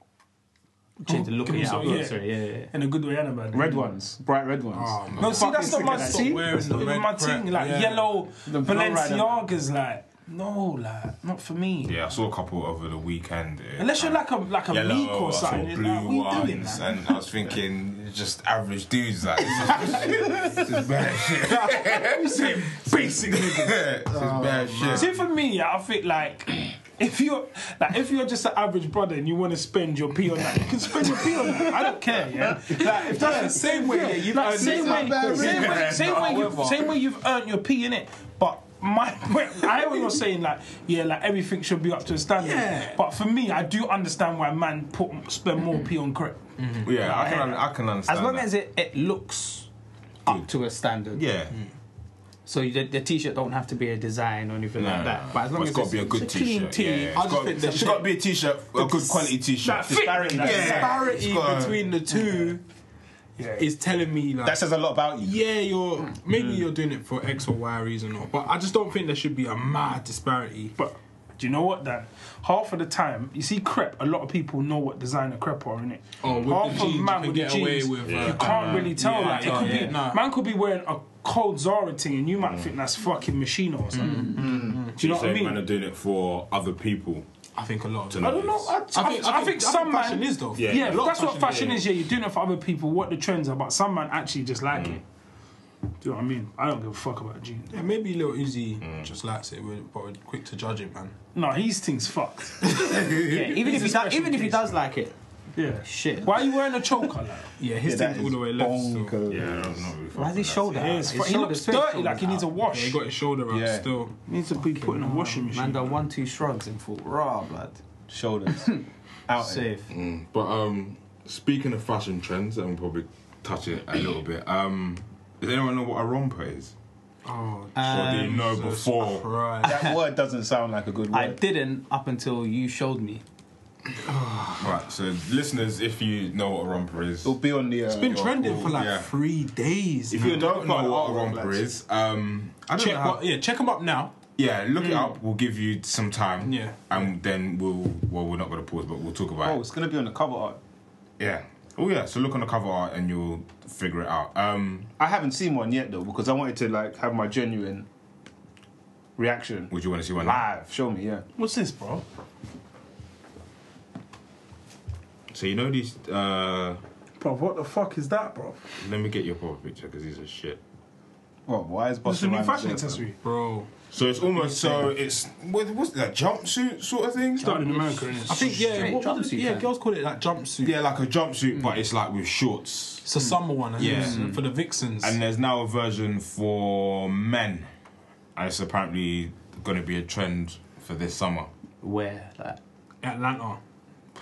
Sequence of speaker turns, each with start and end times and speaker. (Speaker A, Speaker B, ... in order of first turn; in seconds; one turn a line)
Speaker A: 1.0-2.7
Speaker B: 1.1-3.9
Speaker C: 1.8-2.1
Speaker C: 3.5-6.7
Speaker D: 4.7-8.2
Speaker E: 5.1-5.5
Speaker B: 5.2-12.0
Speaker C: 8.4-9.4
Speaker E: 11.8-25.1
Speaker B: 13.8-17.0
Speaker B: 21.4-23.8
Speaker D: 24.1-25.2
Speaker C: 24.2-24.8
Speaker B: 24.9-46.5
Speaker C: 32.6-36.8
Speaker D: 32.7-36.2
Speaker D: 42.4-43.0
Speaker D: 46.6-46.9
Speaker E: 46.8-48.5
Speaker A: 47.0-49.7
Speaker A: 50.2-51.2
Speaker E: 51.1-51.6
Speaker A: 52.5-56.8
Speaker E: 54.8-61.9
Speaker D: 56.6-59.3
Speaker A: 57.4-58.0
Speaker B: 59.6-60.9
Speaker C: 59.9-61.1
Speaker D: 60.5-62.6
Speaker B: 63.4-63.6
Speaker D: 63.6-64.6
Speaker C: 64.4-65.4
Speaker D: 65.2-70.8
Speaker C: 66.3-66.6
Speaker B: 70.8-85.6
Speaker D: 76.2-80.2
Speaker E: 76.2-76.8
Speaker E: 78.0-78.9
Speaker A: 79.0-80.0
Speaker E: 82.4-82.7
Speaker D: 83.9-84.9
Speaker C: 84.4-84.8
Speaker E: 84.9-87.2
Speaker D: 87.5-91.7
Speaker E: 88.1-88.8
Speaker B: 88.2-95.0
Speaker E: 90.5-91.8
Speaker E: 94.7-95.0
Speaker B: 96.0-97.8
Speaker D: 97.7-101.1
Speaker E: 98.8-99.1
Speaker B: 101.3-104.8
Speaker D: 102.6-103.0
Speaker A: 103.2-105.1
Speaker B: 105.5-107.5
Speaker A: 105.8-106.3
Speaker D: 107.6-109.2
Speaker C: 107.8-109.9
Speaker E: 109.3-110.9
Speaker A: 110.1-112.5
Speaker B: 110.7-113.0
Speaker D: 112.7-114.2
Speaker C: 113.5-113.9
Speaker B: 114.3-115.9
Speaker A: 114.3-117.8
Speaker C: 118.1-119.7
Speaker A: 118.5-118.8
Speaker A: 119.3-119.9
Speaker E: 119.9-126.7
Speaker D: 127.2-129.8
Speaker A: 127.7-128.4
Speaker E: 127.8-129.3
Speaker C: 129.6-131.4
Speaker A: 129.6-129.9
Speaker A: 131.1-133.2
Speaker D: 134.1-134.8
Speaker E: 134.5-137.3
Speaker C: 137.2-138.6
Speaker D: 137.9-140.7
Speaker E: 138.0-139.1
Speaker E: 140.1-143.2
Speaker C: 140.1-141.7
Speaker D: 142.7-144.2
Speaker E: 144.3-149.6
Speaker D: 146.4-147.1
Speaker C: 149.4-150.6
Speaker E: 151.2-154.9
Speaker C: 155.0-157.9
Speaker C: 159.2-161.2
Speaker E: 159.7-160.4
Speaker B: 161.4-162.0
Speaker E: 165.3-166.8
Speaker B: 167.2-168.8
Speaker E: 168.8-170.6
Speaker C: 171.5-173.1
Speaker B: 172.0-173.2
Speaker D: 173.2-173.7
Speaker E: 173.9-177.8
Speaker D: 174.4-174.9
Speaker B: 177.4-178.6
Speaker D: 177.5-180.8
Speaker A: 178.4-179.7
Speaker E: 180.6-184.4
Speaker D: 183.0-185.2
Speaker A: 183.8-184.4
Speaker E: 185.0-187.7
Speaker E: 188.3-191.5
Speaker A: 191.8-192.6
Speaker D: 193.0-193.6